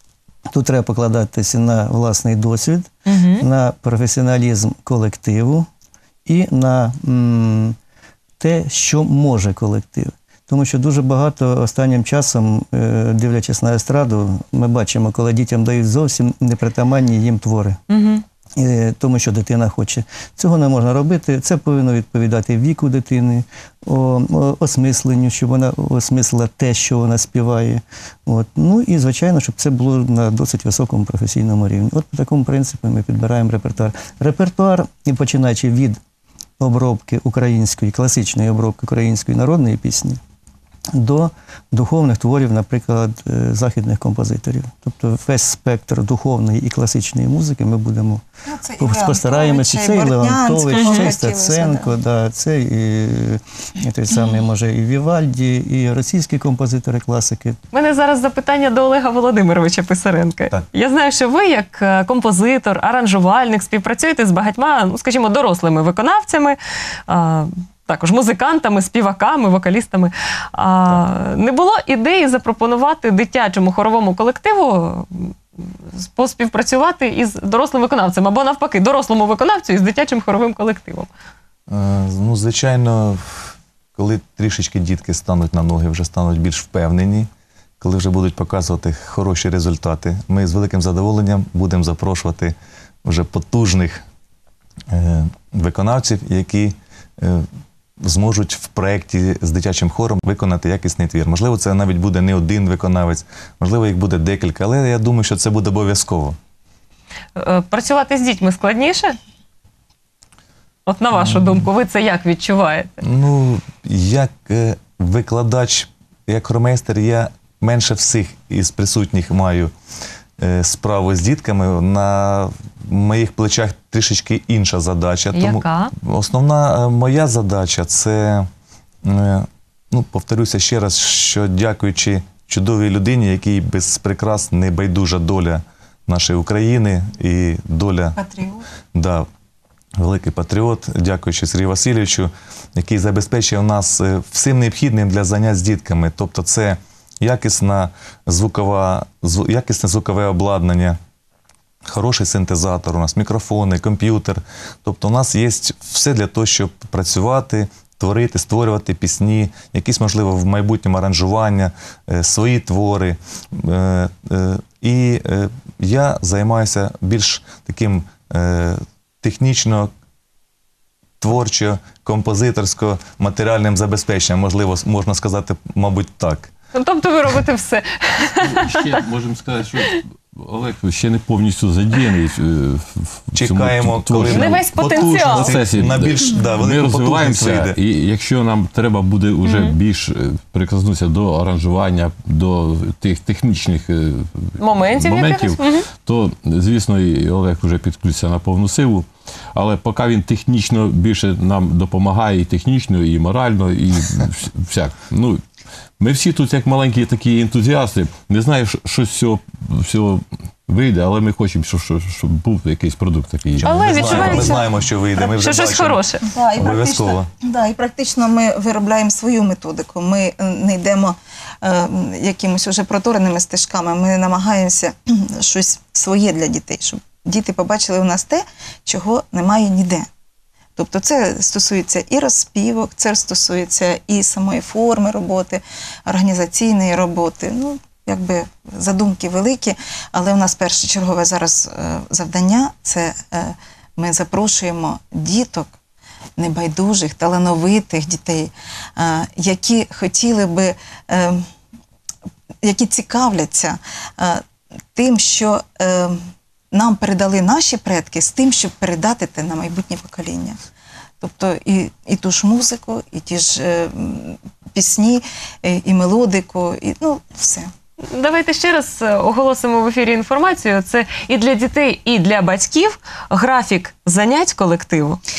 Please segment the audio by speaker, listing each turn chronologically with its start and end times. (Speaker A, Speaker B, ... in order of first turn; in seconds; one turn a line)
Speaker A: 0.5-5.7
Speaker B: 3.0-3.5
Speaker A: 6.2-7.8
Speaker A: 8.4-17.8
Speaker B: 17.9-18.2
Speaker A: 18.6-36.0
Speaker A: 36.6-40.2
Speaker A: 40.9-48.2
Speaker C: 48.5-51.9
Speaker A: 48.8-57.6
Speaker B: 50.7-51.1
Speaker B: 57.7-81.1
Speaker D: 81.7-87.3
Speaker D: 87.8-94.0
Speaker D: 94.9-97.5
Speaker D: 98.0-106.4
Speaker B: 107.3-109.2
Speaker B: 110.9-113.0
Speaker D: 111.2-111.7
Speaker D: 113.0-119.7
Speaker D: 120.4-128.5
Speaker B: 125.3-125.9
Speaker D: 129.0-138.2
Speaker C: 138.2-138.7
Speaker D: 138.9-139.3
Speaker D: 140.0-151.0
Speaker D: 151.8-169.9
Speaker D: 171.2-176.5
Speaker B: 176.7-178.9
Speaker E: 178.4-205.4
Speaker D: 183.3-187.8
Speaker B: 184.3-185.5
Speaker B: 189.4-189.8
Speaker B: 194.6-195.9
Speaker E: 206.0-214.5
Speaker B: 213.6-214.6
Speaker D: 213.7-216.0
Speaker C: 214.0-214.7
Speaker B: 215.1-216.2
Speaker C: 216.2-230.1
Speaker D: 216.6-217.3
Speaker C: 230.8-245.7
Speaker C: 246.4-251.5
Speaker C: 252.6-254.4
Speaker C: 254.9-260.6
Speaker C: 261.2-267.7
Speaker B: 268.1-275.2